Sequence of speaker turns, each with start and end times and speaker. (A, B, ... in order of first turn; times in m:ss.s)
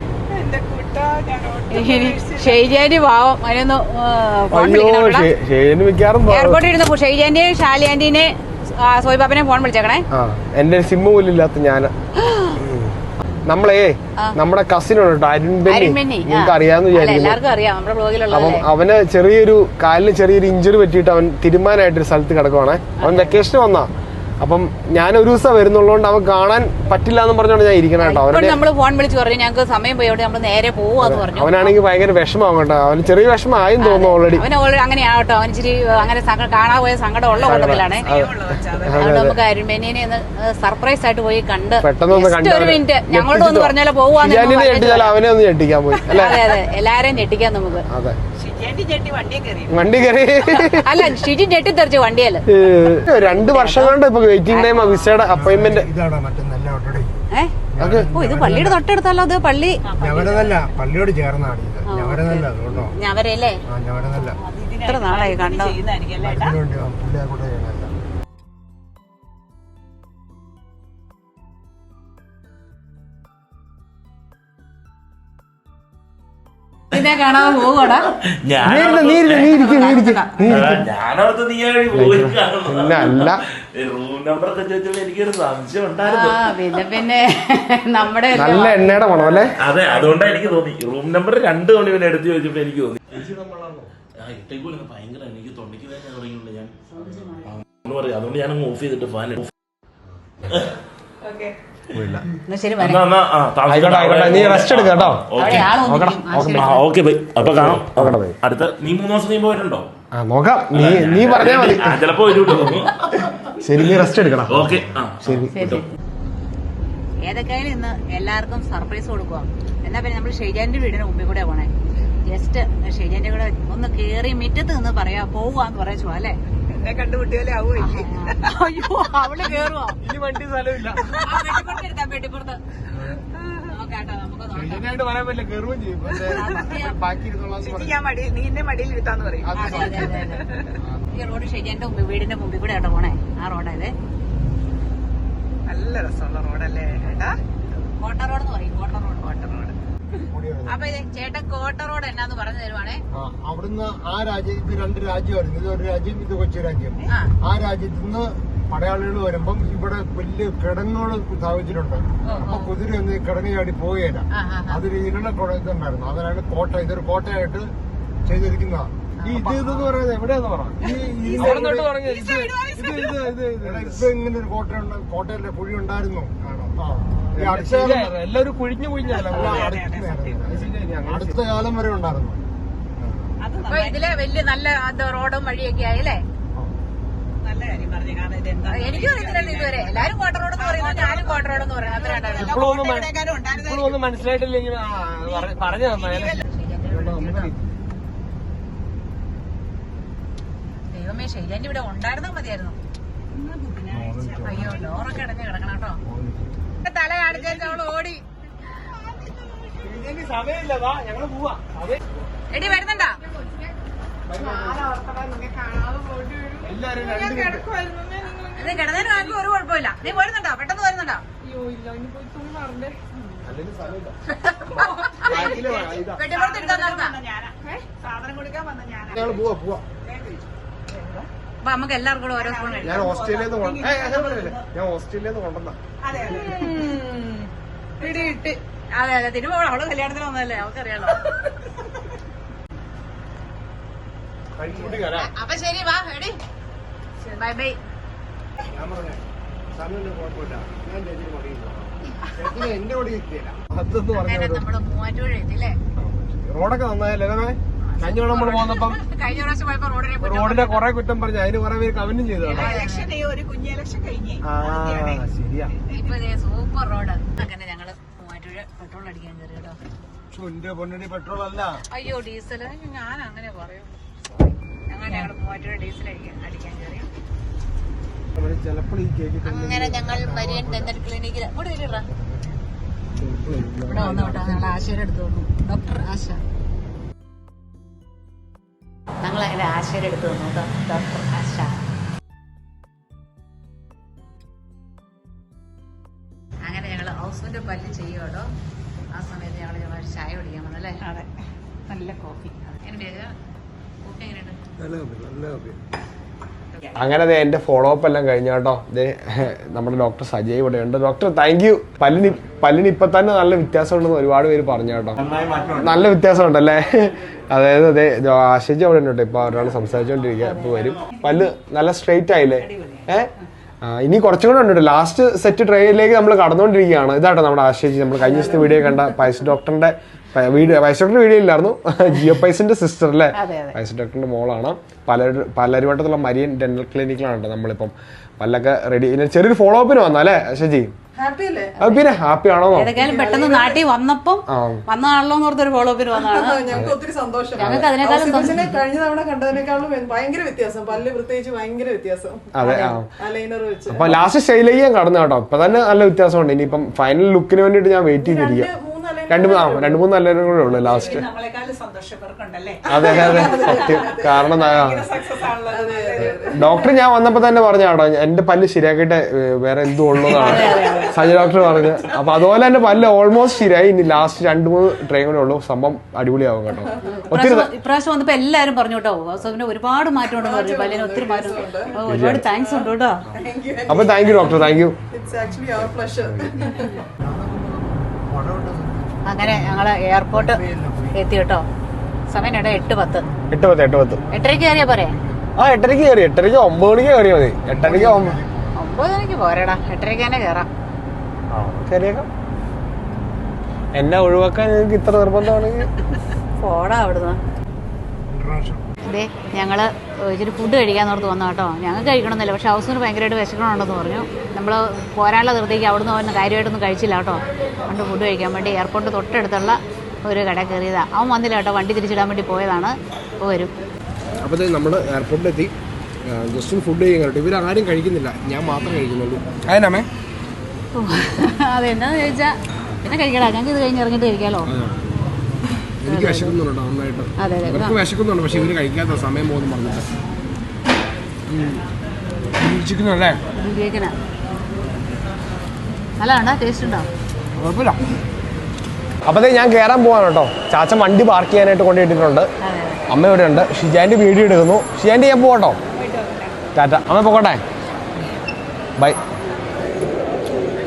0:00.3-0:02.6 A
0:01.7-0:05.3 B
0:04.5-0:06.6 C
0:06.3-0:10.0 B
0:10.1-0:11.9 C
0:12.2-0:12.6 B
0:12.6-0:17.4 C
0:15.6-0:18.6 B
0:18.3-0:28.6 C
0:23.0-0:23.4 B
0:28.0-0:31.7 B
0:31.0-0:34.4 C
0:33.8-0:38.1 B
0:37.4-0:39.4 C
0:37.4-0:39.0 A
0:39.0-0:45.1 B
0:41.8-0:46.6 C
0:46.1-0:47.8 B
0:47.9-0:48.2 C
0:48.4-0:49.8 A
0:49.7-0:51.1 C
0:50.4-0:52.4 B
0:52.4-0:55.9 C
0:53.2-0:54.0 B
0:54.5-0:55.2 B
0:55.3-0:57.1 D
0:57.7-0:58.8 D
0:57.8-0:58.1 C
0:58.1-0:59.8 B
0:59.8-1:00.6 A
1:00.0-1:02.9 D
1:01.9-1:03.6 B
1:03.7-1:04.4 D
1:04.3-1:06.5 A
1:04.8-1:05.8 B
1:06.2-1:07.9 D
1:16.9-1:18.1 B
1:18.4-1:19.5 E
1:18.6-1:20.9 C
1:19.4-1:20.6 B
1:20.4-1:26.5 E
1:21.9-1:23.4 C
1:26.0-1:29.3 B
1:28.3-1:29.6 C
1:29.6-1:33.1 E
1:33.1-1:33.9 C
1:34.2-1:36.7 E
1:36.9-1:37.5 B
1:37.4-1:39.5 E
1:41.3-1:41.5 A
1:41.9-1:42.3 C
1:42.3-1:43.1 B
1:42.8-1:45.8 E
1:43.6-1:46.8 C
1:45.4-1:46.8 B
1:46.4-1:49.9 E
1:47.4-1:48.4 C
1:50.1-1:52.8 C
1:50.7-1:53.3 E
1:53.4-1:55.8 C
1:54.4-1:55.9 E
1:55.5-1:56.0 B
1:57.2-2:01.7 B
2:02.3-2:06.4 B
2:06.7-2:08.5 A
2:07.8-2:10.0 B
2:09.4-2:11.0 C
2:11.1-2:12.6 B
2:12.9-2:13.2 C
2:13.6-2:14.9 B
2:14.5-2:18.0 C
2:16.2-2:17.0 B
2:17.6-2:20.7 A
2:19.4-2:20.3 C
2:19.5-2:20.4 B
2:20.8-2:21.1 C
2:21.1-2:23.9 B
2:25.7-2:27.4 A
2:27.7-2:29.8 B
2:30.4-2:30.7 C
2:30.6-2:33.0 B
2:33.1-2:47.7 D
2:37.1-2:37.3 B
2:42.2-2:42.7 B
2:44.3-2:44.8 B
2:48.2-2:48.9 D
2:49.2-2:49.8 B
2:49.2-2:54.1 C
2:50.8-2:51.9 D
2:51.4-2:53.2 A
2:53.6-2:58.1 D
2:57.3-2:59.8 C
2:59.1-3:00.5 A
2:59.3-3:02.4 D
3:00.4-3:01.5 C
3:03.0-3:03.2 D
3:03.4-3:04.0 A
3:03.7-3:06.2 B
3:07.4-3:14.0 A
3:08.6-3:12.6 B
3:12.3-3:17.7 C
3:16.4-3:17.5 B
3:20.9-3:22.8 B
3:23.3-3:24.3 A
3:23.9-3:24.9 D
3:24.4-3:26.0 B
3:26.0-3:26.6 D
3:26.8-3:28.2 B
3:29.2-3:29.5 A
3:29.8-3:32.1 C
3:32.5-3:33.2 B
3:34.3-3:34.9 C
3:34.4-3:39.4 A
3:36.6-3:37.6 C
3:38.5-3:41.2 B
3:41.4-3:42.9 F
3:43.4-3:44.2 C
3:44.3-3:45.6 B
3:44.7-3:46.2 C
3:45.4-3:51.3 A
3:46.1-3:47.2 B
3:49.1-3:49.8 D
3:51.6-3:53.1 B
3:52.4-3:54.6 A
3:52.8-3:56.4 C
3:56.0-3:57.1 A
3:56.2-3:57.3 B
3:58.0-4:01.2 B
3:58.0-3:58.3 A
4:04.6-4:05.3 C
4:04.8-4:06.4 B
4:07.2-4:07.8 B
4:08.7-4:09.2 D
4:09.8-4:11.8 C
4:10.0-4:11.5 D
4:12.3-4:13.6 D
4:13.6-4:14.6 C
4:14.1-4:15.8 B
4:16.0-4:19.0 C
4:17.8-4:20.9 B
4:20.2-4:22.8 C
4:22.4-4:23.2 B
4:22.7-4:25.2 A
4:24.4-4:25.7 C
4:25.8-4:26.1 A
4:25.9-4:29.8 B
4:30.3-4:31.4 C
4:31.9-4:37.1 B
4:38.3-4:40.2 C
4:39.4-4:42.1 B
4:40.1-4:40.9 D
4:42.0-4:42.7 D
4:43.2-4:44.8 C
4:43.8-4:46.4 B
4:49.2-4:51.8 B
4:56.6-4:58.5 B
4:59.1-5:01.0 B
5:01.0-5:01.3 A
5:01.9-5:02.5 A
5:02.6-5:03.3 B
5:04.0-5:04.6 B
5:04.8-5:05.8 C
5:06.9-5:23.3 C
5:23.8-5:40.9 C
5:33.3-5:33.8 B
5:41.2-5:41.7 F
5:41.8-5:43.0 C
5:42.7-5:46.8 B
5:43.0-5:43.7 F
5:44.5-5:44.8 C
5:46.2-5:52.4 F
5:47.6-5:48.7 B
5:47.6-5:47.9 C
5:52.5-5:53.1 C
5:52.6-5:53.0 B
5:53.2-5:54.0 F
5:53.9-5:58.7 C
5:58.2-6:00.0 F
5:59.3-6:01.3 C
6:00.9-6:06.4 A
6:02.9-6:05.1 C
6:02.9-6:04.4 F
6:05.7-6:06.6 F
6:06.5-6:17.7 C
6:10.3-6:11.2 B
6:17.0-6:23.2 B
6:20.4-6:22.0 F
6:22.0-6:22.5 C
6:23.3-6:24.2 F
6:23.9-6:25.0 C
6:25.1-6:26.9 F
6:26.2-6:26.8 C
6:27.2-6:31.2 D
6:29.2-6:30.6 B
6:31.1-6:31.6 B
6:32.3-6:33.3 B
6:32.5-6:35.5 D
6:33.5-6:34.2 C
6:34.3-6:35.2 B
6:35.6-6:38.4 C
6:37.7-6:38.8 D
6:38.8-6:40.7 B
6:41.5-6:42.3 C
6:43.9-6:45.9 C
6:46.6-6:47.4 B
6:48.3-6:48.8 D
6:49.0-7:03.7 B
7:04.4-7:10.1 C
7:10.9-7:14.7 B
7:14.6-7:15.1 C
7:16.0-7:20.1 C
7:16.0-7:16.6 B
7:17.4-7:18.0 B
7:21.5-7:21.8 C
7:22.6-7:23.4 C
7:23.6-7:24.1 B
7:26.2-7:27.1 B
7:27.6-7:28.0 C
7:29.2-7:32.5 C
7:32.6-7:33.0 B
7:33.1-7:35.8 C
7:36.1-7:36.5 A
7:36.7-7:37.6 C